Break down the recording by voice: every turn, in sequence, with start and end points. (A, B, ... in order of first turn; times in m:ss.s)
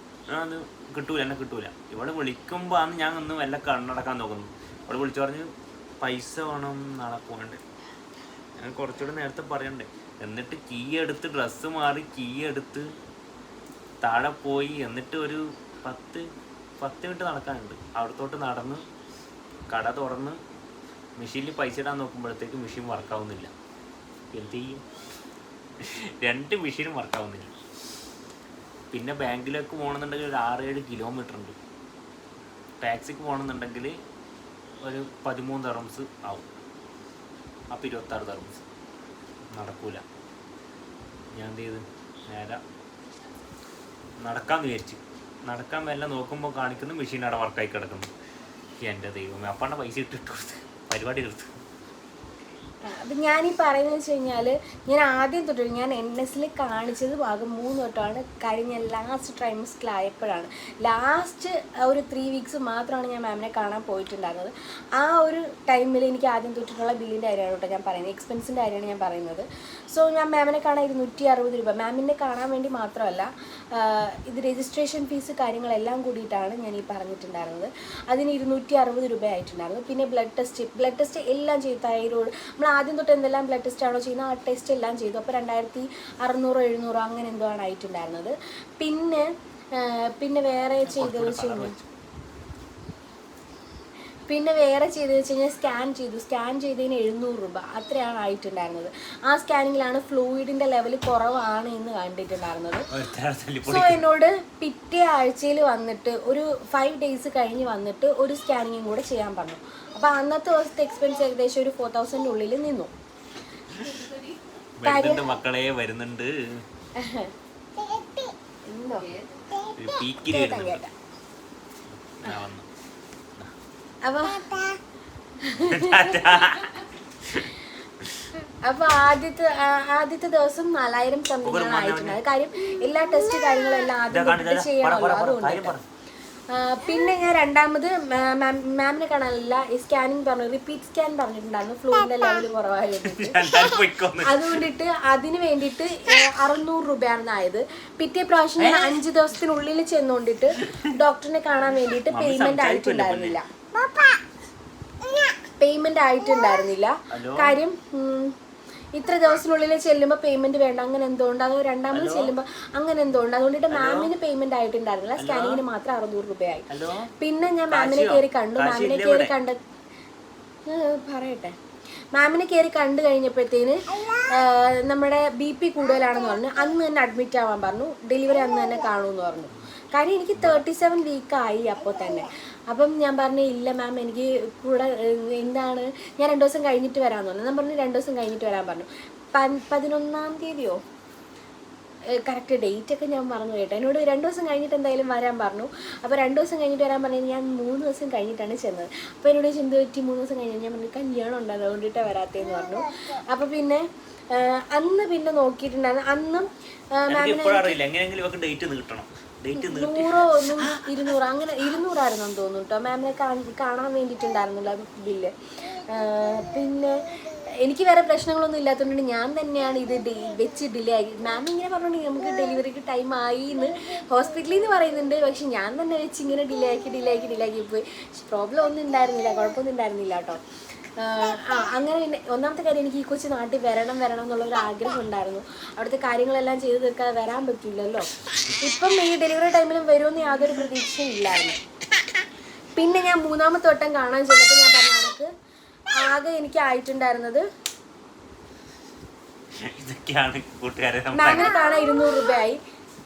0:00.3-0:07.6 A
0:08.6-0:12.9 A
0:14.0-0:16.3 A
0:16.8-0:18.8 A
0:19.7-0:20.4 A
0:21.2-0:23.5 A
0:24.3-0:24.8 A
0:25.8-0:27.5 A
0:28.9-0:31.6 A
0:32.8-0:34.0 A
0:34.8-0:36.5 A
0:37.7-0:38.6 A
0:39.5-0:40.0 A
0:41.3-0:42.6 A
0:44.2-0:48.1 A
0:48.8-0:51.6 A
0:52.8-1:31.7 B
1:30.8-1:31.9 A
1:34.3-1:42.9 B
1:42.9-1:44.0 A
1:43.6-1:52.9 B
1:53.7-1:54.1 A
1:54.8-1:56.6 A
1:54.8-1:55.4 B
1:56.9-1:59.2 B
1:59.6-2:00.8 A
2:00.2-2:00.9 B
2:01.9-2:02.7 A
2:04.0-2:04.8 B
2:05.4-2:06.6 B
2:05.6-2:08.3 A
2:08.5-2:15.7 B
2:11.4-2:12.2 A
2:14.1-2:15.8 A
2:16.5-2:23.6 B
2:23.0-2:24.6 A
2:24.2-2:33.4 B
2:28.6-2:29.0 A
2:30.6-2:30.8 A
2:32.1-2:33.4 A
2:35.6-2:38.3 B
2:37.1-2:37.6 A
2:38.9-2:46.7 B
2:41.9-2:42.3 A
2:43.7-2:44.1 A
2:45.2-2:45.6 A
2:46.7-2:47.1 A
2:47.2-2:49.6 B
2:47.7-2:49.3 A
2:50.7-2:51.6 B
2:52.1-3:10.8 B
3:00.4-3:00.6 A
3:12.1-3:27.8 B
3:27.1-3:31.2 A
3:29.6-3:50.4 B
3:51.0-4:01.6 B
4:02.8-4:05.3 B
4:05.9-4:07.5 B
4:09.5-4:11.5 A
4:11.1-4:12.6 B